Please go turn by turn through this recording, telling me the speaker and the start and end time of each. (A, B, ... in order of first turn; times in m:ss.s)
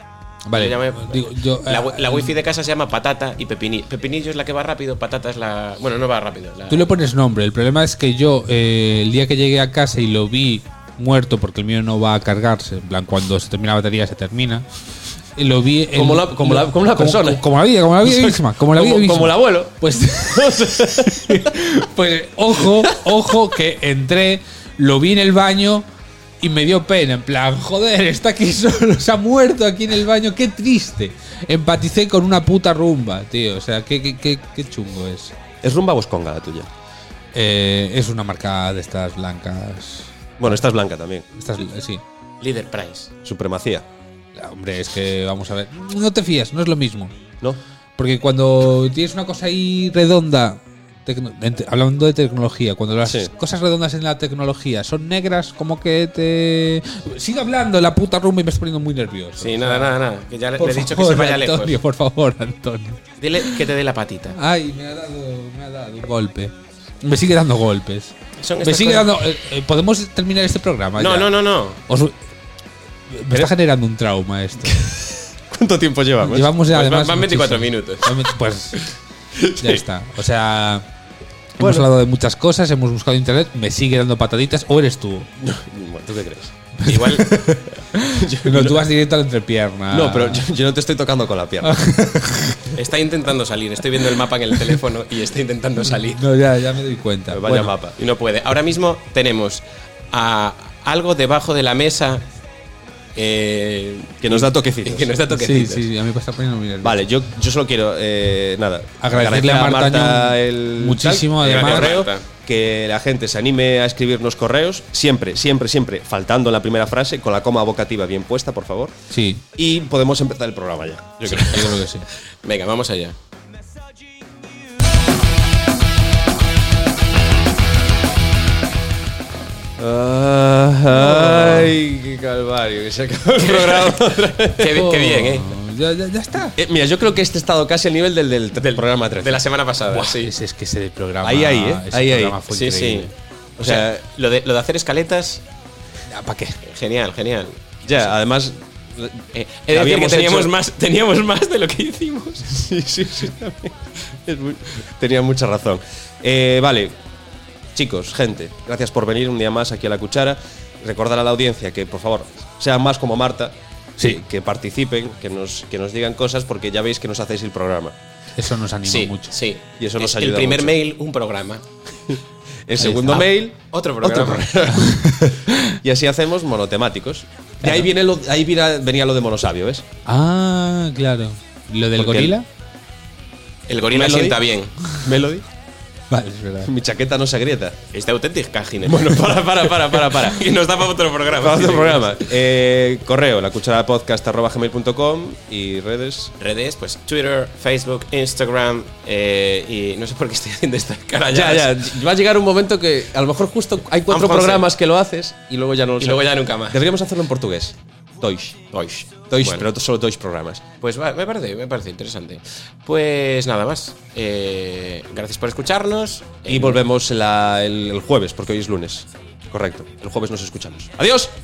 0:00.5-0:02.3 A
0:00.5-0:07.0 B
0:06.7-0:14.7 A
0:15.4-0:25.9 A
0:16.0-0:17.4 C
0:18.0-0:21.5 C
0:26.4-0:35.4 A
0:35.6-0:36.7 C
0:37.3-0:40.6 A
0:40.4-0:41.3 C
0:41.4-0:42.0 A
0:42.4-0:43.1 B
0:43.2-0:43.9 C
0:44.4-0:47.2 A
0:48.0-1:00.0 A
0:53.1-0:53.3 C
0:59.4-1:01.8 B
1:00.6-1:03.6 A
1:03.2-1:04.4 B
1:04.3-1:11.3 A
1:08.4-1:09.2 B
1:11.0-1:11.8 B
1:11.9-1:12.2 A
1:13.1-1:14.8 A
1:14.6-1:16.5 C
1:16.2-1:18.8 A
1:16.7-1:18.1 B
1:19.4-1:19.8 C
1:19.6-1:20.9 A
1:21.6-1:25.3 A
1:21.6-1:21.9 C
1:25.4-1:26.5 C
1:26.8-1:30.5 A
1:26.8-1:27.4 B
1:28.1-1:28.9 C
1:29.9-1:31.8 C
1:31.6-1:32.7 A
1:32.7-1:36.2 B
1:36.0-1:37.7 A
1:37.3-1:38.0 C
1:38.0-1:42.2 B
1:43.2-1:45.9 B
1:44.2-1:45.1 C
1:45.3-1:47.0 A
1:46.8-1:58.9 C
1:49.0-1:52.0 A
1:51.4-1:52.3 B
1:59.1-1:59.4 A
1:59.6-2:01.8 C
2:01.2-2:02.1 A
2:02.4-2:03.2 B
2:09.8-2:14.7 C
2:10.9-2:11.6 A
2:13.4-2:15.5 B
2:14.7-2:16.6 A
2:16.6-2:19.4 C
2:18.6-2:20.3 B
2:19.9-2:23.1 A
2:21.2-2:22.4 C
2:22.5-2:25.4 B
2:23.6-2:24.0 C
2:26.1-2:26.6 A
2:26.6-2:28.1 B
2:27.9-2:30.5 C
2:29.3-2:32.6 B
2:32.5-2:37.0 C
2:37.8-2:48.0 C
2:48.4-2:49.3 A
2:48.9-2:51.6 B
2:49.8-2:50.8 C
2:52.1-2:59.8 C
2:52.8-2:53.3 A
2:52.9-2:54.7 B
2:54.8-2:55.7 A
3:00.0-3:02.5 A
3:02.0-3:02.4 C
3:03.7-3:04.7 B
3:03.9-3:05.4 C
3:06.1-3:06.7 A
3:06.6-3:07.8 C
3:07.9-3:12.2 B
3:08.8-3:10.6 C
3:11.4-3:16.3 C
3:16.4-3:21.8 B
3:21.3-3:28.7 C
3:24.1-3:24.7 B
3:26.0-3:26.8 B
3:28.7-3:29.7 B
3:29.3-3:30.6 C
3:30.8-3:36.8 B
3:36.5-3:41.3 C